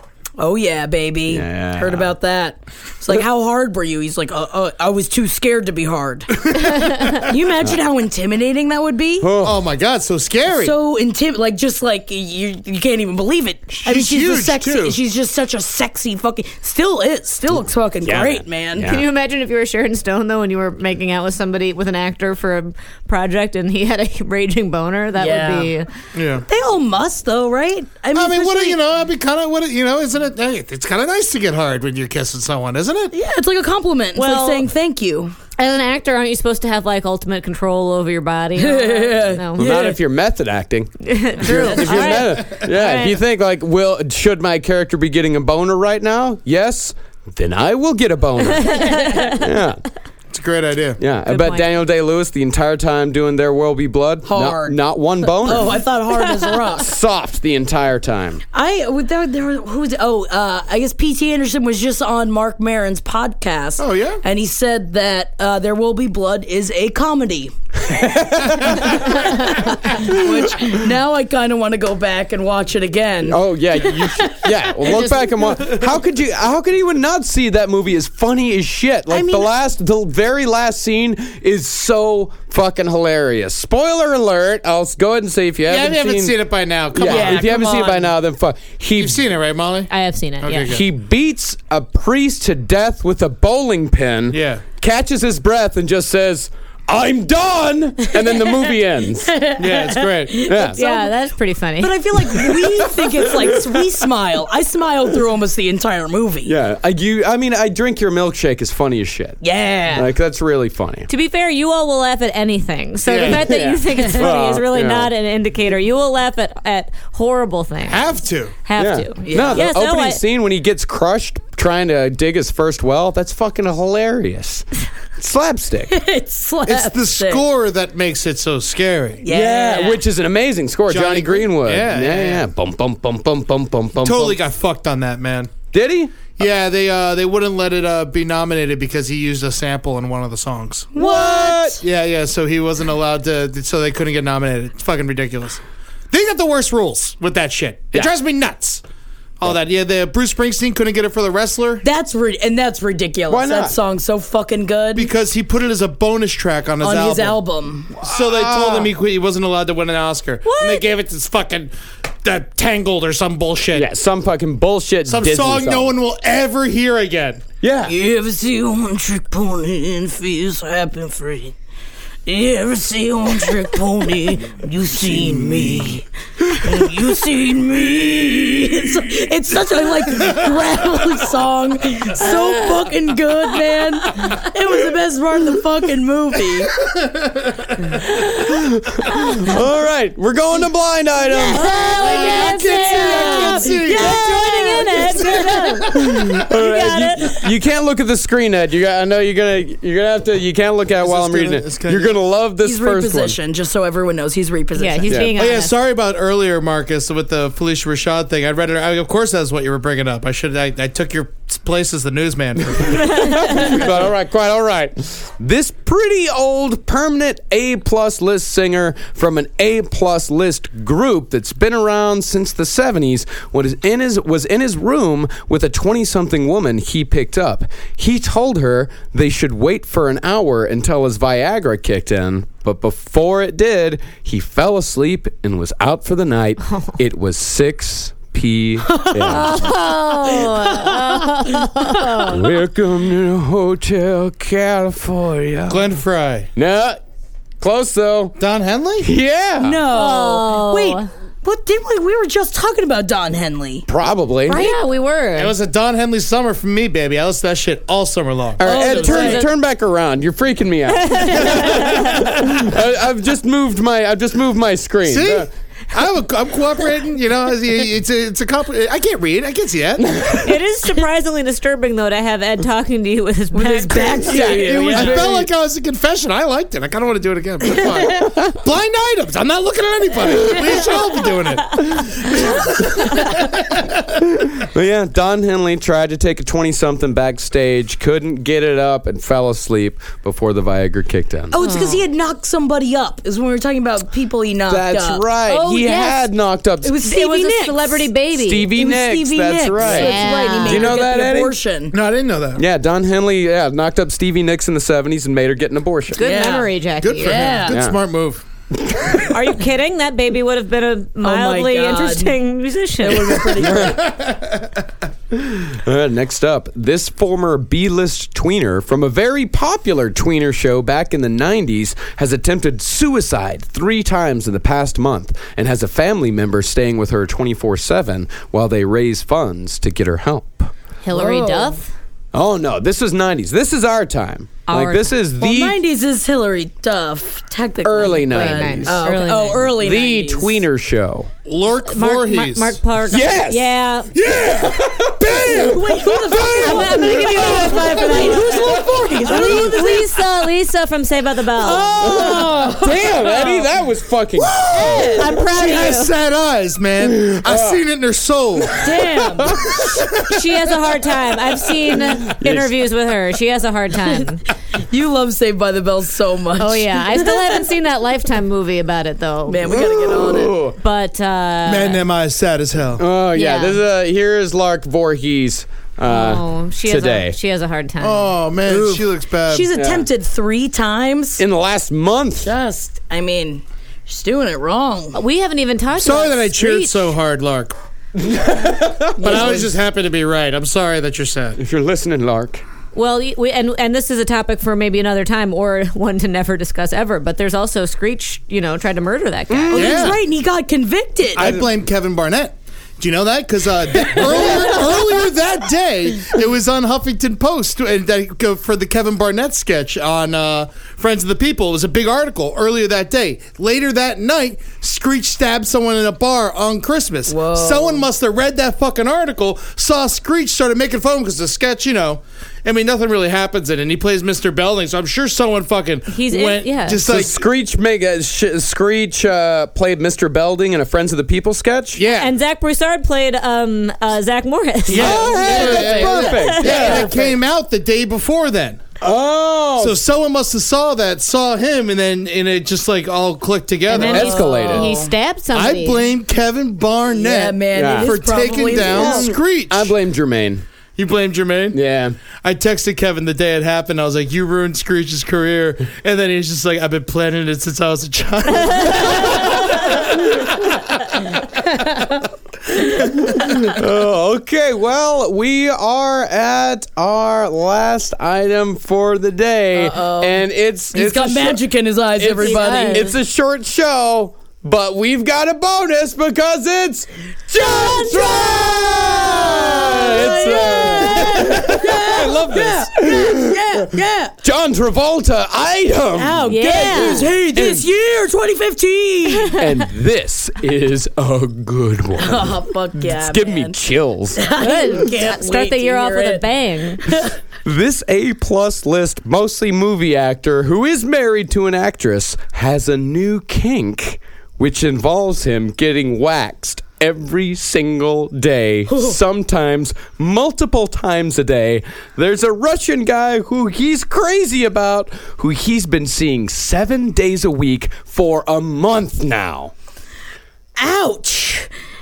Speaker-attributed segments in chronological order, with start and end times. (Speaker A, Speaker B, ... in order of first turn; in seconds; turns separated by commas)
Speaker A: 0.4-9.3, Speaker B: 1.3-2.1, Speaker C: 6.5-7.0, Speaker B: 9.2-9.7, Speaker C: 9.4-10.7, Speaker A: 10.5-18.9, Speaker C: 13.7-15.0, Speaker B: 18.0-19.0, Speaker D: 18.9-25.9, Speaker A: 25.2-25.7, Speaker C: 26.1-26.4, Speaker A: 26.5-28.8, Speaker C: 28.1-33.1, Speaker A: 33.1-35.3, Speaker D: 34.1-34.7, Speaker D: 35.6-39.6, Speaker A: 38.6-40.0, Speaker B: 39.6-49.8, Speaker D: 41.0-43.2, Speaker C: 41.4-42.4, Speaker D: 48.5-49.4, Speaker A: 48.7-49.4, Speaker C: 50.3-51.0, Speaker B: 51.0-55.8, Speaker D: 51.3-51.7, Speaker A: 54.2-56.9, Speaker B: 56.8-58.4, Speaker A: 58.5-75.6, Speaker C: 63.8-64.2, Speaker B: 67.9-69.2, Speaker B: 73.3-86.4, Speaker A: 79.1-79.5, Speaker C: 85.7-87.5, Speaker B: 86.9-89.2, Speaker A: 87.0-88.1, Speaker C: 89.0-89.9, Speaker D: 89.9-90.7, Speaker C: 90.4-90.8, Speaker B: 90.7-99.4, Speaker C: 94.3-94.6, Speaker A: 98.1-98.7, Speaker A: 99.2-101.1, Speaker C: 99.6-100.4, Speaker B: 100.3-100.8, Speaker D: 100.7-102.0, Speaker A: 101.8-106.5, Speaker B: 102.4-104.0, Speaker B: 106.4-111.1, Speaker A: 109.4-110.1, Speaker D: 111.1-118.1, Speaker C: 113.0-113.4, Speaker B: 113.2-115.1, Speaker C: 117.9-118.5, Speaker D: 118.6-120.2, Speaker B: 118.8-126.0, Speaker A: 119.2-119.7, Speaker A: 125.9-127.4, Speaker C: 126.7-129.2, Speaker A: 129.2-130.0, Speaker B: 129.3-134.4, Speaker C: 130.9-132.4, Speaker C: 134.0-135.5, Speaker B: 135.7-136.3, Speaker C: 136.3-140.9, Speaker A: 140.9-141.8, Speaker B: 140.9-141.8, Speaker C: 141.8-148.8, Speaker C: 149.4-151.8, Speaker A: 151.8-155.1, Speaker B: 153.3-153.8, Speaker C: 154.9-157.4, Speaker A: 156.8-158.0, Speaker C: 158.0-163.9, Speaker B: 158.0-158.9, Speaker A: 160.4-160.8, Speaker B: 163.7-166.0, Speaker C: 165.1-167.4, Speaker B: 167.6-167.9, Speaker A: 167.9-171.5, Speaker A: 172.3-186.7, Speaker C: 174.9-176.0, Speaker B: 188.3-192.2, Speaker A: 191.2-195.6, Speaker D: 191.5-197.5, Speaker C: 192.0-195.8, Speaker B: 195.9-203.4, Speaker C: 201.0-202.2, Speaker A: 202.6-205.2, Speaker D: 204.8-205.7, Speaker B: 205.1-205.3, Speaker C: 205.3-214.1, Speaker B: 212.7-239.6, Speaker D: 213.1-213.7, Speaker A: 238.9-239.7, Speaker D: 239.3-242.4, Speaker A: 240.3-242.3, Speaker B: 242.3-246.0, Speaker C: 245.7-246.5, Speaker B: 246.6-247.0, Speaker B: 247.6-248.4, Speaker C: 248.4-249.1, Speaker B: 249.0-249.8, Speaker A: 249.6-253.9, Speaker D: 249.9-251.1, Speaker B: 253.9-254.6, Speaker A: 254.5-254.8, Speaker D: 254.5-255.5, Speaker C: 255.3-259.3, Speaker B: 258.6-265.5, Speaker A: 258.6-259.4, Speaker D: 259.0-259.5, Speaker D: 260.9-262.1, Speaker C: 261.4-262.2, Speaker C: 265.1-270.2, Speaker B: 270.0-270.5, Speaker D: 270.4-274.6, Speaker A: 273.5-275.4, Speaker B: 274.2-275.5, Speaker C: 274.4-284.1, Speaker B: 284.2-291.6, Speaker A: 291.5-295.2, Speaker D: 291.6-292.0, Speaker B: 294.7-296.9, Speaker D: 295.5-296.3, Speaker A: 296.8-298.1, Speaker D: 297.0-298.7, Speaker B: 298.3-301.6, Speaker A: 298.7-301.9, Speaker D: 299.8-300.9, Speaker C: 301.9-302.6, Speaker B: 302.5-306.2, Speaker D: 306.1-307.7, Speaker A: 306.2-307.8, Speaker C: 307.0-308.4, Speaker B: 307.7-308.0, Speaker B: 308.8-309.2, Speaker D: 309.3-313.5, Speaker A: 311.2-312.4, Speaker A: 313.0-314.0, Speaker B: 313.6-314.1, Speaker C: 313.7-314.7, Speaker B: 315.3-330.7, Speaker D: 331.0-331.9, Speaker A: 331.1-331.8, Speaker B: 332.3-335.8, Speaker D: 334.7-335.1, Speaker A: 335.4-340.6, Speaker B: 337.8-339.0, Speaker D: 338.3-339.7, Speaker B: 339.6-341.3, Speaker C: 341.4-342.8, Speaker D: 341.8-344.1, Speaker B: 343.1-349.9, Speaker A: 345.4-350.4, Speaker C: 345.4-345.7, Speaker C: 346.4-347.6, Speaker D: 346.5-351.9, Speaker A: 351.6-353.7, Speaker B: 351.9-355.3, Speaker A: 354.4-355.3, Speaker D: 355.1-356.1, Speaker C: 355.5-358.9, Speaker B: 357.0-357.8, Speaker B: 358.6-360.1, Speaker A: 358.8-359.6, Speaker C: 359.6-360.1, Speaker D: 360.3-364.4, Speaker B: 361.9-362.7, Speaker A: 364.9-367.6, Speaker D: 366.6-369.7, Speaker A: 369.4-370.6, Speaker B: 369.7-370.8, Speaker D: 370.8-372.0, Speaker C: 371.6-373.0, Speaker B: 373.0-377.4, Speaker D: 373.3-373.8, Speaker D: 376.0-378.3, Speaker C: 378.0-379.7, Speaker A: 378.7-381.4, Speaker B: 379.7-380.1, Speaker B: 381.4-382.5, Speaker A: 382.4-385.2, Speaker D: 385.1-387.1, Speaker C: 385.9-387.7, Speaker B: 388.2-389.6, Speaker A: 389.2-389.7, Speaker C: 389.2-391.6, Speaker B: 391.6-392.6, Speaker D: 392.9-400.0, Speaker B: 399.5-399.9, Speaker A: 399.7-401.5, Speaker C: 399.7-400.2, Speaker C: 401.4-427.4, Speaker B: 401.4-401.6, Speaker A: 417.3-418.1, Speaker D: 426.1-427.0, Speaker B: 426.9-432.0, Speaker C: 431.9-432.3, Speaker D: 432.1-437.1, Speaker B: 434.9-437.2, Speaker C: 434.9-438.9, Speaker A: 434.9-437.3, Speaker B: 439.0-440.0, Speaker C: 439.8-444.5, Speaker D: 443.9-446.0, Speaker A: 443.9-445.1, Speaker B: 444.0-444.9, Speaker C: 445.5-449.9, Speaker A: 447.1-449.3, Speaker B: 447.7-448.1, Speaker B: 448.7-450.6, Speaker C: 450.9-451.8, Speaker B: 451.7-452.2, Speaker C: 452.4-461.4, Speaker A: 461.8-462.2, Speaker C: 462.9-463.7, Speaker B: 463.0-471.6, Speaker A: 469.7-473.1, Speaker B: 472.2-483.6, Speaker D: 472.4-473.2, Speaker A: 477.5-484.3, Speaker D: 480.8-481.1, Speaker B: 484.4-487.9, Speaker A: 486.1-489.6, Speaker D: 486.5-487.3, Speaker B: 489.6-494.4, Speaker A: 492.1-493.8, Speaker A: 494.4-497.3, Speaker D: 494.6-497.0, Speaker B: 497.6-519.7, Speaker A: 508.9-509.2, Speaker A: 520.8-521.7